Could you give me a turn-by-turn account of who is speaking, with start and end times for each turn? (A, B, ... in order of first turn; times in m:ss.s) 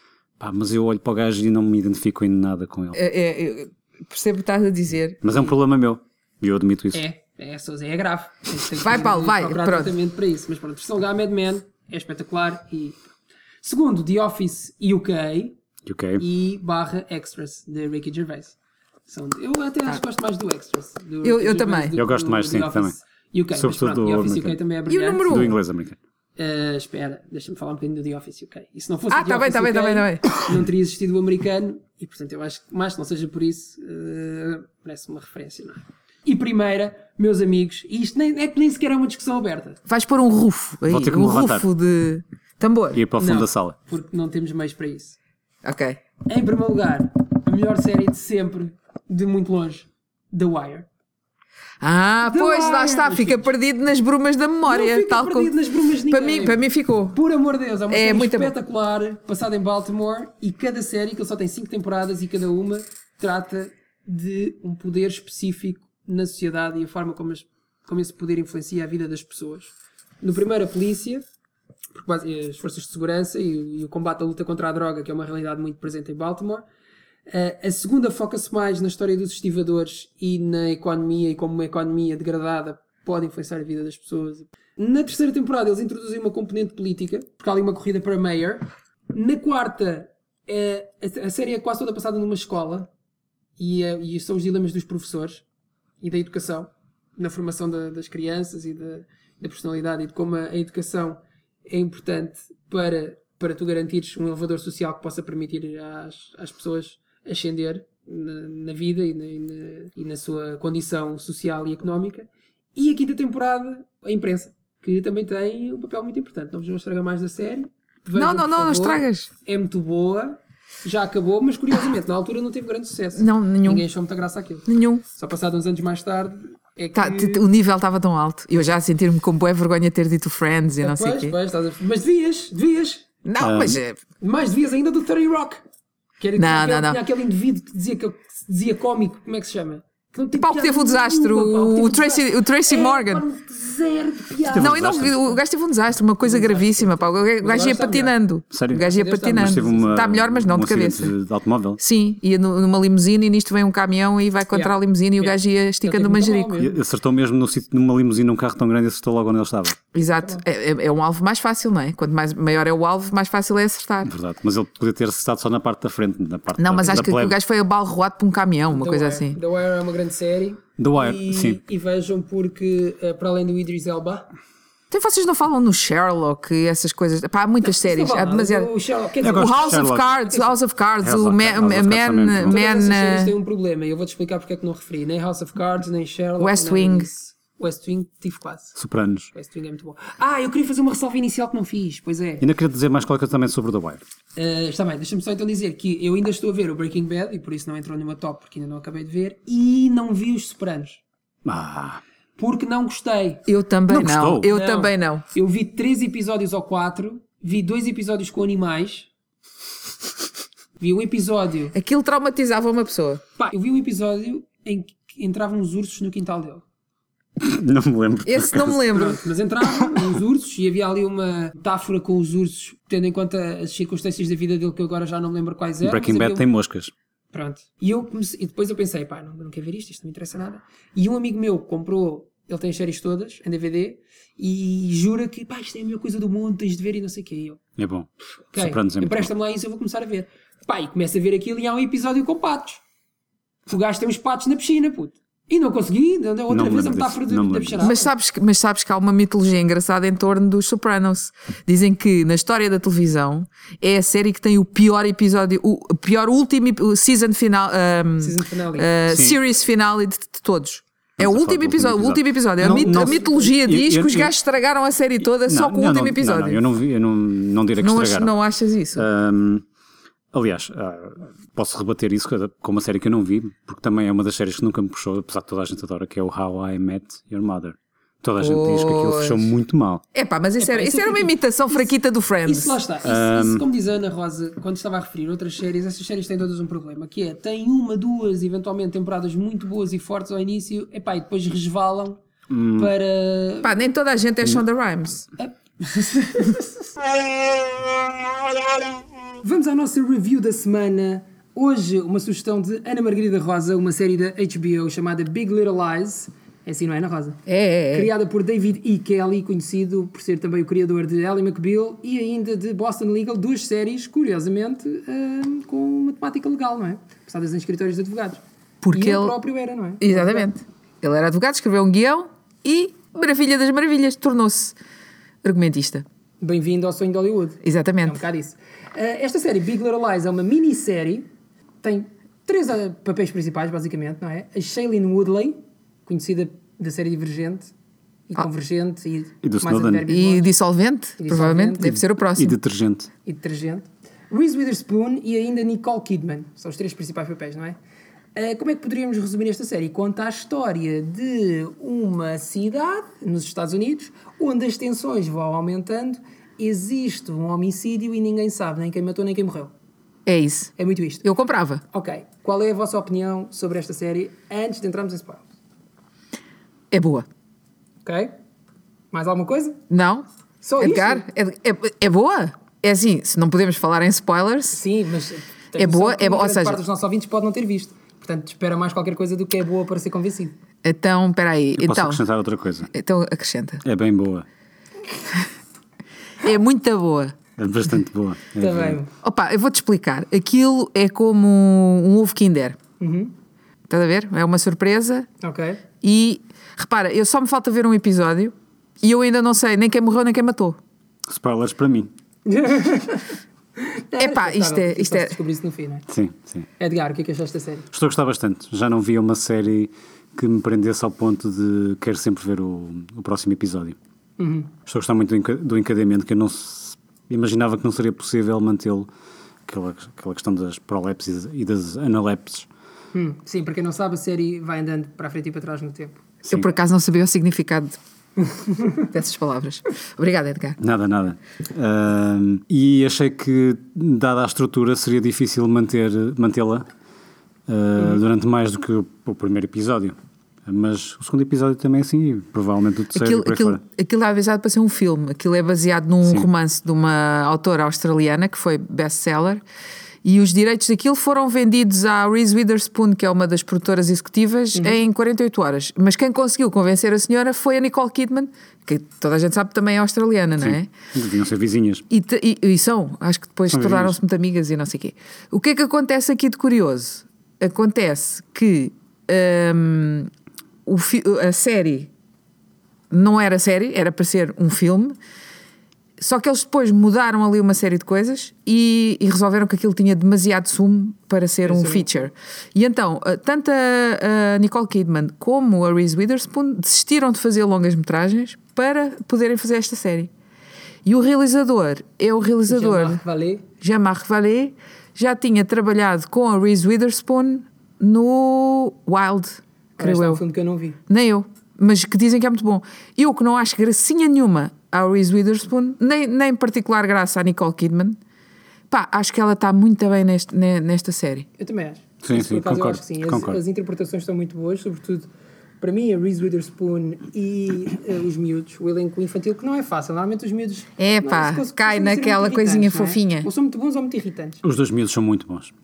0:00.4-0:03.0 A
0:02.9-0:05.2 B
0:05.2-0:07.0 A
0:06.9-0:13.0 C
0:08.8-0:09.9 B
0:13.6-0:15.6 C
0:15.8-0:16.2 A
0:16.2-0:18.6 C
0:19.1-0:25.5 C
0:21.2-0:21.9 B
0:22.0-0:23.0 A
0:23.5-0:24.6 A
0:24.9-0:25.6 B
0:25.3-0:26.0 A
0:26.4-0:39.8 C
0:29.1-0:30.3 B
0:39.9-0:43.0 B
0:40.9-0:41.6 A
0:42.9-0:43.8 A
0:43.2-0:45.2 C
0:45.6-0:46.0 B
0:46.3-0:50.9 C
0:51.8-0:55.5 B
0:52.2-0:53.5 C
0:54.6-1:11.2 C
0:56.0-0:57.2 B
0:57.9-0:58.5 B
1:11.9-1:16.6 C
1:17.3-1:32.9 C
1:33.6-1:35.4 C
1:36.0-2:07.4 C
1:58.1-1:59.3 B
2:03.2-2:03.8 B
2:04.7-2:05.0 B
2:06.9-2:11.3 B
2:10.8-2:13.1 C
2:13.2-2:14.0 B
2:13.4-2:13.8 A
2:14.2-2:15.6 C
2:16.2-2:25.1 C
2:16.4-2:17.0 B
2:20.3-2:23.2 B
2:24.5-2:25.2 A
2:24.6-2:31.1 B
2:26.2-2:28.2 C
2:28.5-2:31.8 A
2:28.7-2:30.0 C
2:31.8-2:36.6 B
2:34.5-2:36.8 C
2:36.6-2:39.8 A
2:39.9-2:44.1 B
2:40.1-2:40.4 C
2:44.0-2:47.4 A
2:46.6-2:49.4 B
2:48.7-2:54.3 C
2:50.8-2:51.6 A
2:54.9-2:58.7 B
2:57.6-3:00.6 C
2:59.2-3:00.1 A
2:59.2-3:03.3 B
3:01.0-3:02.6 A
3:02.4-3:08.8 C
3:06.4-3:07.1 B
3:08.8-3:09.3 A
3:09.3-3:12.4 C
3:12.4-3:14.0 A
3:14.4-3:21.0 C
3:21.4-3:22.0 A
3:22.4-3:23.5 C
3:23.5-3:25.2 B
3:23.9-3:24.5 A
3:24.4-3:29.1 C
3:30.8-3:31.7 C
3:31.7-3:33.2 B
3:33.4-3:36.6 C
3:37.4-3:38.8 A
3:38.2-3:39.2 B
3:38.9-3:46.5 C
3:45.8-3:46.9 A
3:47.3-3:57.6 C
3:57.8-3:59.3 A
3:58.5-4:02.8 C
4:03.7-4:08.1 C
4:06.5-4:07.9 A
4:07.8-4:26.6 B
4:18.2-4:18.9 C
4:19.1-4:19.4 A
4:21.2-4:24.3 A
4:22.6-4:23.5 C
4:25.3-4:28.3 A
4:27.8-4:29.1 B
4:28.9-4:29.6 A
4:30.3-4:40.0 A
4:38.4-4:39.5 B
4:40.1-4:42.8 B
4:40.6-4:41.9 C
4:42.4-4:52.2 C
4:43.0-4:43.6 A
4:52.5-4:52.9 A
4:52.8-4:53.8 C
4:53.6-4:55.3 B
4:55.4-4:56.9 C
4:59.4-5:20.5 C
5:07.5-5:08.1 B
5:18.8-5:19.4 B
5:20.0-5:24.8 B
5:25.4-5:26.0 B
5:26.4-5:31.3 C
5:27.6-5:28.2 B
5:31.8-5:37.7 C
5:38.3-5:40.5 C
5:39.4-5:40.0 A
5:40.1-5:42.6 B
5:41.2-5:41.9 C
5:41.8-5:43.1 A
5:43.2-5:47.8 C
5:48.3-5:59.7 C
6:00.2-6:01.8 B
6:00.8-6:01.3 C
6:01.9-6:05.4 C
6:06.9-6:07.3 B
6:08.0-6:08.4 C
6:09.1-6:09.8 C
6:09.9-6:10.2 B
6:10.6-6:11.2 C
6:10.8-6:14.8 B
6:14.7-6:20.5 C
6:15.8-6:16.8 B
6:20.8-6:22.2 B
6:21.8-6:22.9 A
6:22.9-6:23.8 B
6:23.8-6:24.4 A
6:26.4-6:27.3 B
6:27.6-6:29.0 A
6:28.6-6:29.1 C
6:29.2-6:32.8 B
6:33.0-6:33.3 C
6:33.9-6:35.3 B
6:35.4-6:35.8 C
6:36.0-6:40.8 B
6:41.3-6:42.1 A
6:42.4-6:46.0 C
6:44.2-6:45.4 B
6:46.1-6:46.7 A
6:46.8-6:47.9 C
6:47.9-6:54.0 A
6:54.4-6:54.7 C
6:54.8-6:59.1 A
6:59.7-7:02.7 A
7:03.1-7:06.2 C
7:06.5-7:08.0 B
7:09.0-7:10.8 B
7:10.8-7:16.8 A
7:17.7-7:23.8 A
7:23.1-7:29.6 B
7:30.2-7:40.9 B
7:40.6-7:42.0 A
7:42.1-7:50.3 B
7:43.7-7:44.2 A
7:50.8-7:52.1 B
7:53.1-7:55.2 B
7:56.2-8:10.3 B
8:01.6-8:02.3 C
8:11.0-8:13.2 B
8:12.7-8:13.6 C
8:13.8-8:20.4 B
8:20.0-8:21.0 C
8:21.1-8:28.2 B
8:28.9-8:31.5 B
8:31.6-8:35.3 C
8:32.2-8:33.6 A
8:35.8-8:44.6 C
8:41.0-8:43.5 B
8:44.6-8:45.7 A